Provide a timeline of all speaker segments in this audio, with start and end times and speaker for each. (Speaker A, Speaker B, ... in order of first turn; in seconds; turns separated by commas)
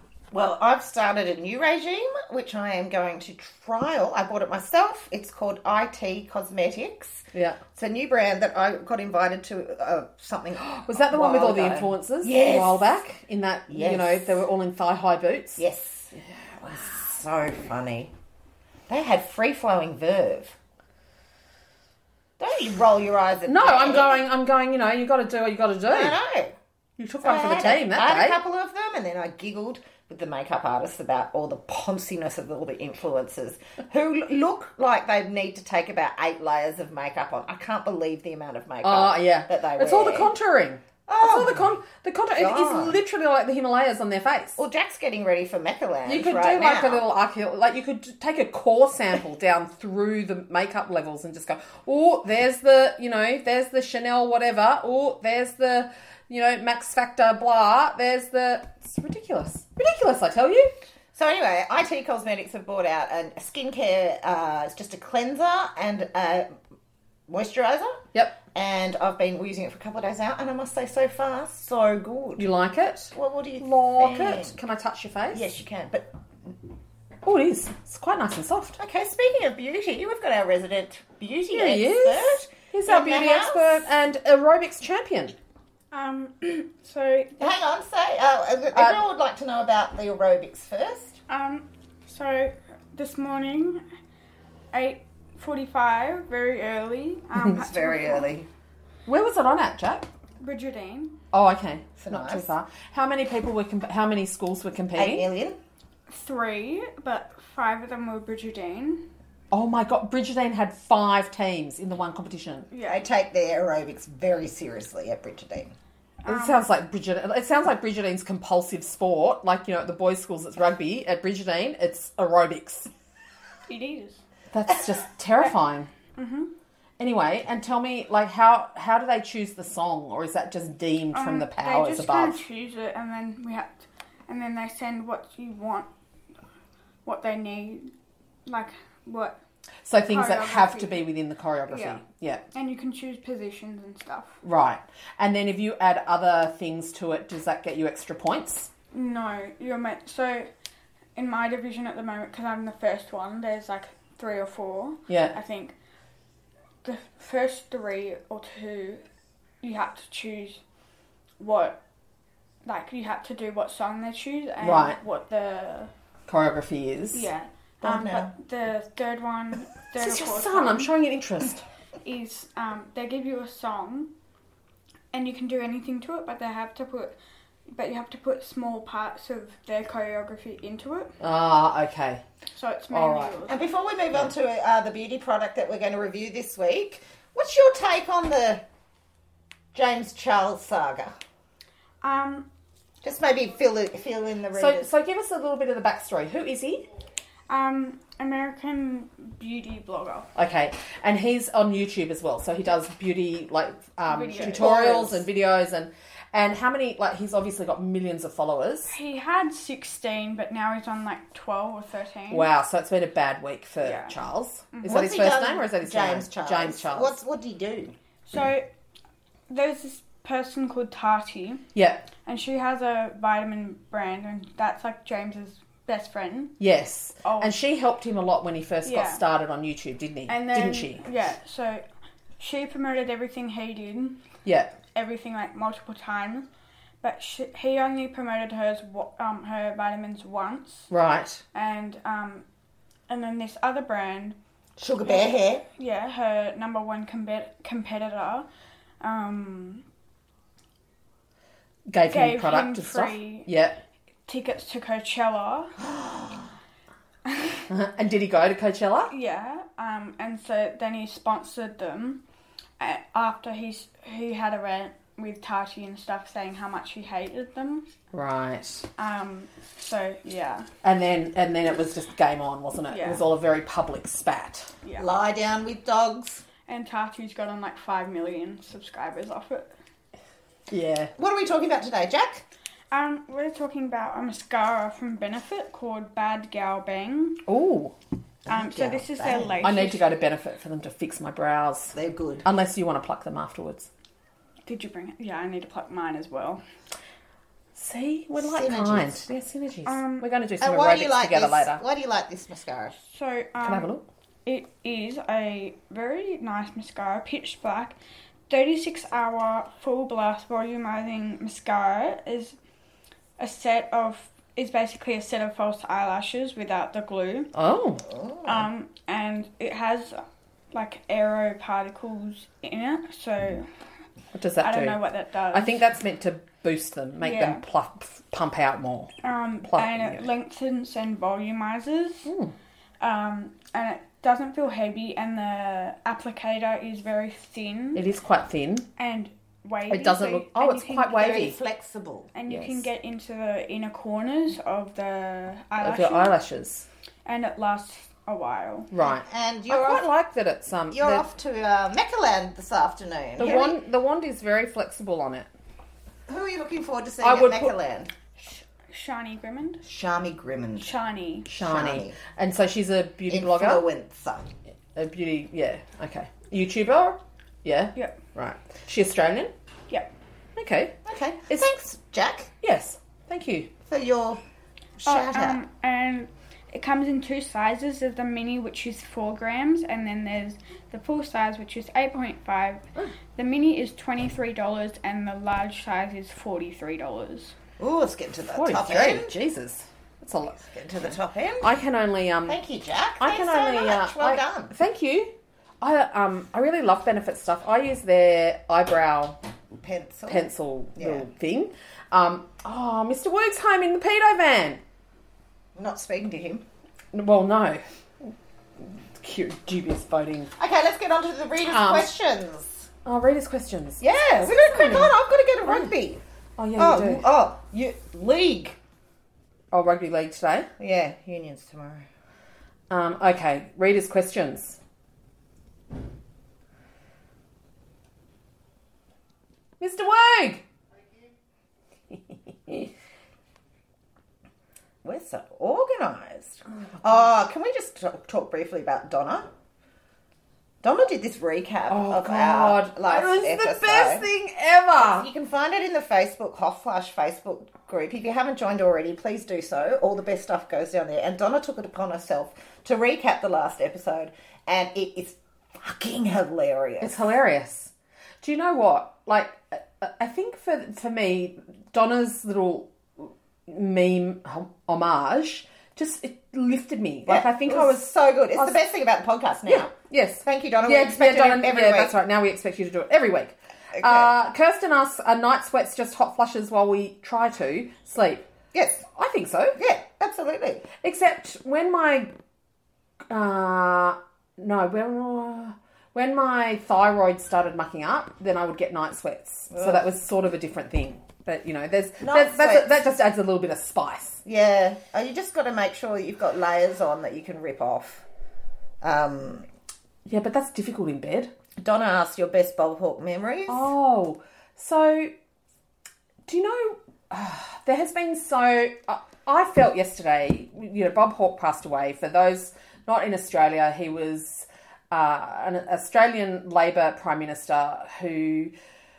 Speaker A: 0.3-12.8, Speaker B: 7.3-7.6, Speaker B: 10.6-15.6, Speaker A: 13.7-14.4, Speaker A: 15.6-18.1, Speaker B: 16.2-16.5, Speaker A: 18.9-20.6, Speaker A: 22.4-24.2, Speaker B: 23.5-26.2, Speaker A: 25.9-26.6, Speaker B: 27.0-28.4, Speaker A: 27.2-40.3, Speaker B: 38.8-44.6, Speaker A: 41.1-41.7, Speaker A: 42.3-43.0, Speaker A: 44.6-47.0, Speaker B: 46.0-60.7, Speaker A: 61.1-66.5, Speaker A: 67.3-72.5, Speaker B: 72.4-75.4, Speaker A: 73.1-74.5, Speaker A: 75.3-76.1, Speaker B: 77.2-78.8, Speaker A: 78.8-83.8, Speaker B: 81.5-85.3, Speaker C: 85.9-87.5, Speaker A: 87.4-91.2, Speaker B: 88.7-89.0, Speaker C: 91.3-93.8, Speaker C: 94.7-98.3, Speaker A: 97.6-98.5, Speaker B: 99.1-100.1, Speaker C: 100.4-101.2, Speaker B: 101.3-105.3, Speaker A: 102.0-102.5, Speaker A: 105.0-105.6, Speaker C: 106.1-109.0, Speaker B: 109.5-112.7, Speaker C: 112.7-113.0, Speaker A: 112.8-115.8, Speaker C: 116.2-116.7, Speaker B: 116.3-122.9, Speaker C: 123.7-124.2, Speaker B: 124.5-125.9, Speaker C: 126.2-126.5, Speaker B: 127.0-132.4, Speaker C: 131.1-135.9, Speaker C: 137.1-137.9, Speaker C: 138.5-139.4, Speaker B: 139.8-142.4, Speaker C: 140.1-141.1, Speaker C: 141.7-142.0, Speaker C: 142.5-144.4, Speaker B: 144.4-148.7, Speaker C: 148.9-150.5, Speaker C: 151.2-155.8, Speaker B: 155.1-155.4, Speaker C: 156.8-159.0, Speaker C: 159.6-160.6, Speaker C: 161.4-161.8, Speaker C: 162.6-165.9, Speaker B: 164.6-165.0, Speaker B: 166.3-167.3, Speaker C: 167.1-170.9, Speaker A: 167.8-168.3, Speaker B: 170.0-171.6, Speaker C: 172.0-174.1, Speaker C: 175.1-177.2, Speaker C: 177.7-181.2, Speaker B: 181.2-182.2, Speaker C: 182.6-183.6, Speaker B: 182.9-183.4, Speaker A: 183.5-188.6, Speaker A: 189.7-191.1, Speaker C: 192.0-192.5, Speaker A: 193.0-194.9, Speaker B: 194.5-196.9, Speaker C: 197.5-200.3, Speaker B: 200.3-208.9, Speaker C: 204.1-204.8, Speaker A: 204.4-205.2, Speaker C: 208.9-212.5, Speaker B: 212.3-217.2, Speaker C: 213.8-214.1, Speaker C: 214.7-215.1, Speaker A: 214.8-217.9, Speaker C: 218.3-218.7, Speaker C: 219.5-221.6, Speaker B: 221.8-222.1, Speaker C: 222.2-226.6, Speaker B: 226.6-231.0, Speaker C: 227.2-227.6, Speaker C: 228.8-229.2, Speaker C: 230.3-231.8, Speaker C: 232.4-234.2, Speaker B: 234.4-234.7, Speaker C: 234.9-236.5, Speaker C: 237.0-240.9, Speaker B: 240.9-241.4, Speaker C: 241.5-242.4, Speaker C: 243.1-244.4, Speaker A: 244.8-245.6, Speaker C: 245.1-248.5, Speaker C: 249.0-249.8, Speaker B: 251.9-253.8, Speaker C: 252.1-253.5, Speaker C: 254.3-255.9, Speaker C: 257.3-257.6, Speaker B: 257.7-259.1, Speaker C: 259.1-262.2, Speaker C: 262.8-267.9, Speaker B: 268.1-268.9, Speaker C: 269.0-270.7, Speaker B: 270.8-274.7, Speaker C: 272.9-273.2, Speaker C: 274.8-275.1, Speaker A: 275.0-276.4, Speaker C: 276.7-279.7, Speaker B: 280.7-281.1, Speaker A: 281.2-282.4, Speaker C: 282.9-287.4, Speaker B: 287.5-287.9, Speaker A: 288.5-289.6, Speaker C: 288.5-290.1, Speaker B: 289.6-293.9, Speaker A: 291.9-292.4, Speaker C: 294.7-296.6, Speaker B: 297.8-301.8, Speaker A: 298.4-299.2, Speaker C: 299.9-300.3, Speaker A: 300.6-303.0, Speaker C: 303.0-303.9, Speaker B: 303.6-304.0, Speaker C: 304.4-308.0, Speaker C: 308.5-312.6, Speaker C: 313.4-317.5, Speaker B: 317.5-318.0, Speaker A: 318.1-318.6, Speaker C: 318.4-323.7, Speaker B: 324.4-330.2, Speaker C: 324.6-325.8, Speaker C: 327.2-327.6, Speaker C: 329.2-332.3, Speaker B: 332.3-332.5, Speaker C: 333.0-338.0, Speaker B: 337.9-338.9, Speaker C: 339.0-341.4, Speaker B: 339.9-341.6, Speaker A: 341.1-342.3, Speaker C: 342.3-346.4, Speaker B: 342.5-342.9, Speaker B: 345.8-346.9, Speaker C: 347.2-348.9, Speaker B: 348.9-351.3, Speaker A: 349.0-350.1, Speaker A: 350.9-353.8, Speaker B: 353.4-355.5, Speaker A: 356.3-358.1, Speaker B: 357.2-357.7, Speaker C: 358.4-359.8, Speaker A: 359.8-360.9, Speaker C: 360.8-361.5, Speaker B: 361.5-363.8, Speaker A: 361.5-362.2, Speaker A: 363.3-364.5, Speaker B: 364.9-369.5, Speaker B: 370.6-371.0, Speaker A: 371.1-372.5, Speaker B: 372.6-373.7, Speaker A: 373.9-374.4, Speaker A: 375.0-375.6, Speaker C: 375.1-387.6, Speaker A: 387.8-389.4, Speaker B: 388.5-392.6, Speaker A: 390.7-391.7, Speaker A: 392.5-394.7, Speaker B: 393.2-399.4, Speaker A: 399.7-401.3, Speaker B: 400.3-404.8, Speaker A: 405.8-406.6, Speaker B: 407.1-410.5, Speaker A: 410.6-412.9, Speaker B: 411.7-412.1, Speaker B: 413.1-415.1, Speaker A: 414.0-416.2, Speaker B: 415.7-415.9, Speaker B: 416.6-417.3, Speaker A: 416.8-418.8, Speaker B: 419.7-420.7, Speaker A: 420.8-422.1, Speaker B: 422.9-424.8, Speaker B: 429.8-430.6, Speaker A: 435.0-439.5, Speaker A: 440.8-444.3, Speaker B: 441.9-445.3, Speaker A: 445.0-457.2, Speaker B: 457.0-468.8, Speaker A: 467.3-472.1, Speaker B: 469.7-478.4, Speaker A: 473.9-474.3, Speaker A: 478.7-479.1, Speaker B: 479.1-479.8, Speaker A: 479.8-480.9, Speaker B: 481.0-482.3, Speaker B: 483.3-494.4, Speaker A: 489.7-490.1, Speaker A: 492.2-493.0, Speaker A: 494.4-498.2, Speaker A: 499.0-499.7, Speaker B: 500.3-501.5, Speaker A: 501.8-503.9, Speaker B: 503.7-505.3, Speaker B: 506.5-518.7